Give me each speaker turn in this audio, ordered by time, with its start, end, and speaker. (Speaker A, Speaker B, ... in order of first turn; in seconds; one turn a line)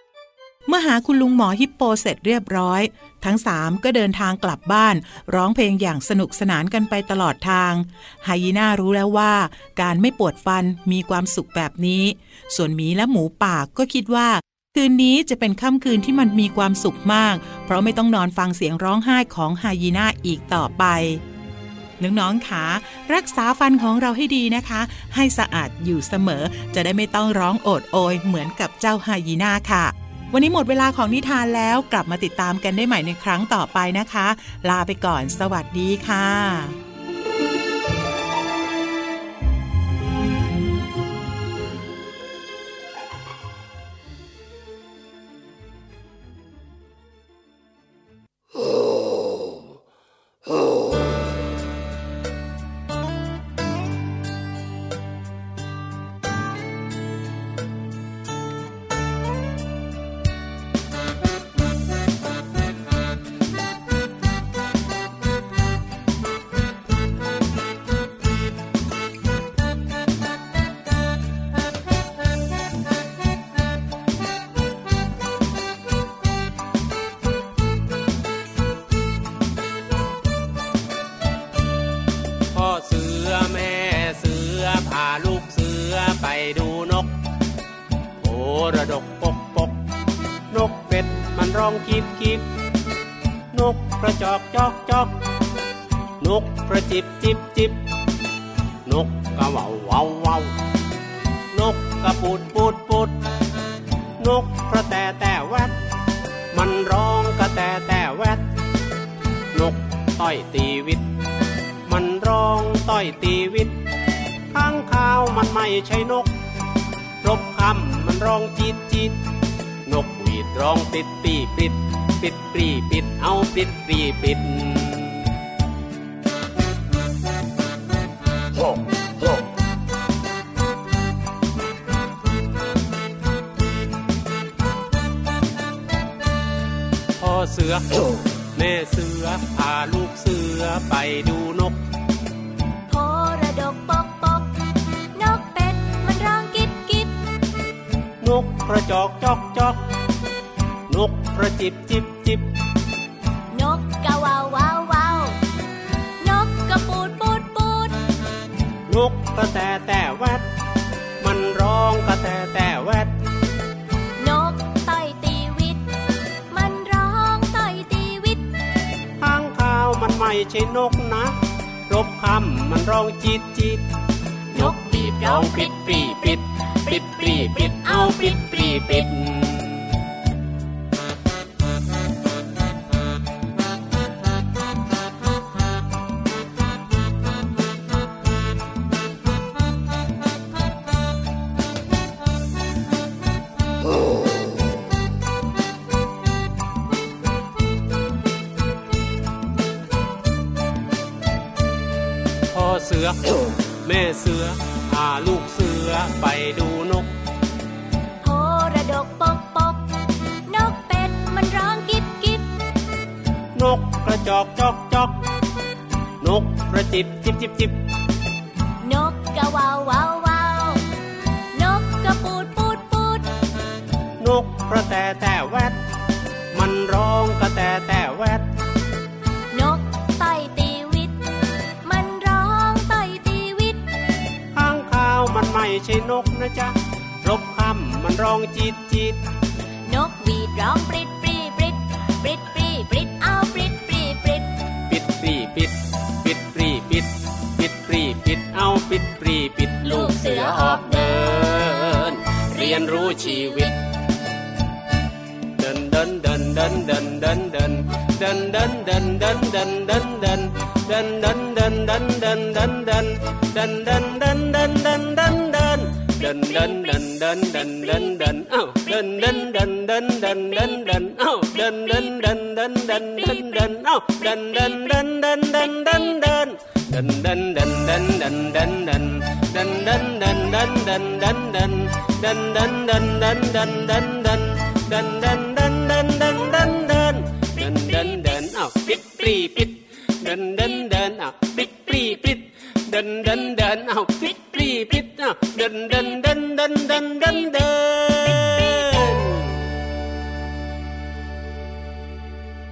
Speaker A: 0.7-21.2
Speaker A: 22.0-36.8
Speaker B: 82.5-87.1
Speaker B: 88.2-89.8
Speaker B: 90.5-92.5
Speaker B: 93.5-95.1
Speaker B: 96.2-97.8
Speaker B: 98.8-100.5
Speaker B: 101.5-103.2
Speaker B: 104.2-105.8
Speaker B: 106.5-108.4
Speaker B: 109.5-111.1
Speaker B: 111.8-113.8
Speaker B: 114.5-116.3
Speaker B: 117.2-119.2
Speaker B: 119.8-125.3
Speaker B: 137.2-137.9
Speaker B: 138.5-141.8
Speaker C: 142.9-144.5
Speaker C: 145.1-147.1
Speaker B: 148.2-149.8
Speaker B: 150.9-152.5
Speaker C: 153.5-155.3
Speaker C: 156.2-157.9
Speaker B: 158.9-160.4
Speaker B: 161.2-163.1
Speaker C: 164.2-165.8
Speaker C: 166.5-168.4
Speaker B: 169.2-171.3
Speaker B: 171.9-173.8
Speaker B: 174.5-179.9
Speaker C: 174.6-179.1
Speaker B: 202.5-207.1
Speaker C: 208.2-209.8
Speaker C: 210.5-212.5
Speaker B: 213.6-215.2
Speaker B: 216.2-217.8
Speaker C: 218.8-220.8
Speaker C: 221.5-223.3
Speaker B: 224.2-225.8
Speaker B: 226.5-228.5
Speaker C: 229.5-231.1
Speaker C: 231.8-233.8
Speaker B: 234.5-239.2
Speaker C: 239.9-244.5
Speaker B: 244.9-253.7
Speaker C: 249.8-253.7
Speaker B: 255.6-299.6
Speaker C: 266.5-266.8
Speaker C: 267.9-268.2
Speaker C: 273.1-273.7